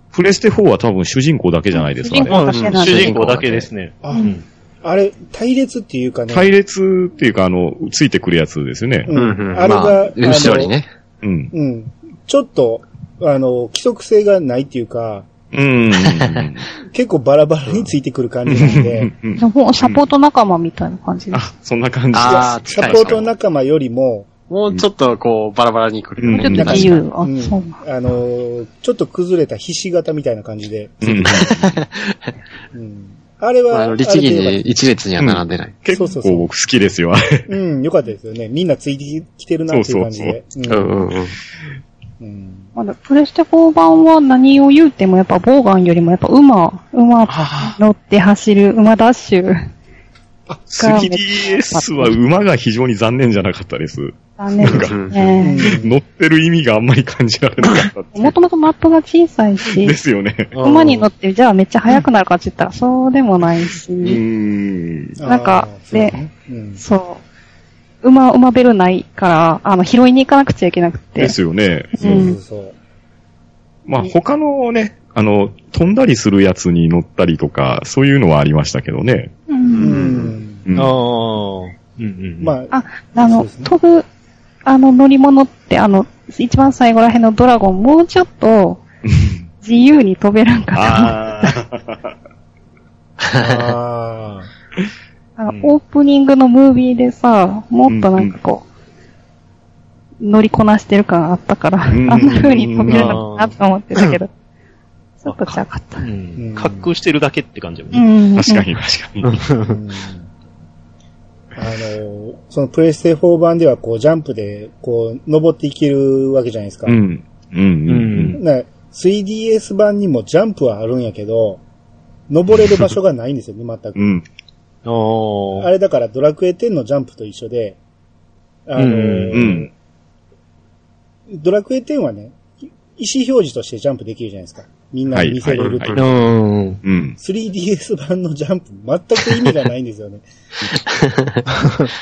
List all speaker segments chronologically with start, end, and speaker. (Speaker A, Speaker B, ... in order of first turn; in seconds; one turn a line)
Speaker A: 0.1-3.7
Speaker B: 1.7-3.1
Speaker C: 2.3-4.4
Speaker D: 2.5-3.1
Speaker E: 4.0-6.5
Speaker B: 4.1-4.4
Speaker A: 6.3-9.1
Speaker E: 9.1-10.7
Speaker D: 9.1-10.9
Speaker A: 11.2-11.5
Speaker E: 11.5-15.2
Speaker A: 15.5-16.6
Speaker D: 16.0-16.5
Speaker E: 16.9-19.1
Speaker A: 18.5-20.0
Speaker B: 19.4-21.5
Speaker A: 21.3-23.3
Speaker D: 22.1-23.3
Speaker E: 22.2-24.3
Speaker D: 24.5-27.1
Speaker A: 26.2-27.0
Speaker B: 26.3-27.8
Speaker E: 27.2-31.5
Speaker A: 31.0-31.8
Speaker D: 31.5-32.1
Speaker E: 32.7-34.8
Speaker D: 33.7-35.7
Speaker A: 35.2-37.5
Speaker E: 35.9-36.5
Speaker E: 37.5-41.0
Speaker A: 39.7-40.4
Speaker D: 40.7-41.4
Speaker E: 42.2-42.7
Speaker B: 42.8-49.5
Speaker A: 47.3-47.8
Speaker A: 50.7-58.3
Speaker B: 50.8-52.1
Speaker B: 54.4-55.7
Speaker D: 54.6-55.2
Speaker E: 55.4-56.0
Speaker B: 58.1-60.0
Speaker A: 59.6-60.5
Speaker C: 60.5-61.1
Speaker B: 60.6-64.2
Speaker A: 64.0-65.2
Speaker E: 65.2-66.8
Speaker B: 65.2-66.2
Speaker B: 66.8-67.2
Speaker B: 68.0-71.3
Speaker A: 71.2-72.3
Speaker B: 71.9-72.4
Speaker E: 72.0-72.7
Speaker A: 73.8-79.3
Speaker B: 79.5-80.0
Speaker D: 79.7-80.3
Speaker E: 79.8-80.6
Speaker A: 80.7-80.9
Speaker C: 80.7-82.5
Speaker E: 82.4-83.7
Speaker B: 82.7-84.0
Speaker B: 84.7-88.8
Speaker A: 89.1-89.4
Speaker B: 89.6-91.2
Speaker A: 90.7-92.1
Speaker D: 93.2-93.5
Speaker E: 93.3-94.5
Speaker B: 95.4-98.6
Speaker A: 97.9-98.3
Speaker B: 100.2-104.3
Speaker A: 101.9-103.2
Speaker C: 102.9-104.2
Speaker B: 105.2-106.1
Speaker C: 106.0-108.0
Speaker E: 106.4-106.9
Speaker B: 107.9-108.7
Speaker A: 108.3-109.5
Speaker C: 109.2-109.7
Speaker E: 109.6-110.3
Speaker E: 111.5-117.0
Speaker A: 116.8-118.4
Speaker C: 117.9-118.4
Speaker E: 118.3-121.6
Speaker E: 122.3-124.2
Speaker A: 122.5-122.9
Speaker A: 124.0-124.2
Speaker C: 124.8-125.7
Speaker E: 125.6-127.8
Speaker E: 128.7-129.7
Speaker C: 128.8-129.5
Speaker A: 129.3-129.7
Speaker E: 131.3-136.1
Speaker A: 135.1-136.0
Speaker C: 135.9-136.8
Speaker A: 136.8-137.2
Speaker E: 137.2-140.2
Speaker D: 140.8-141.4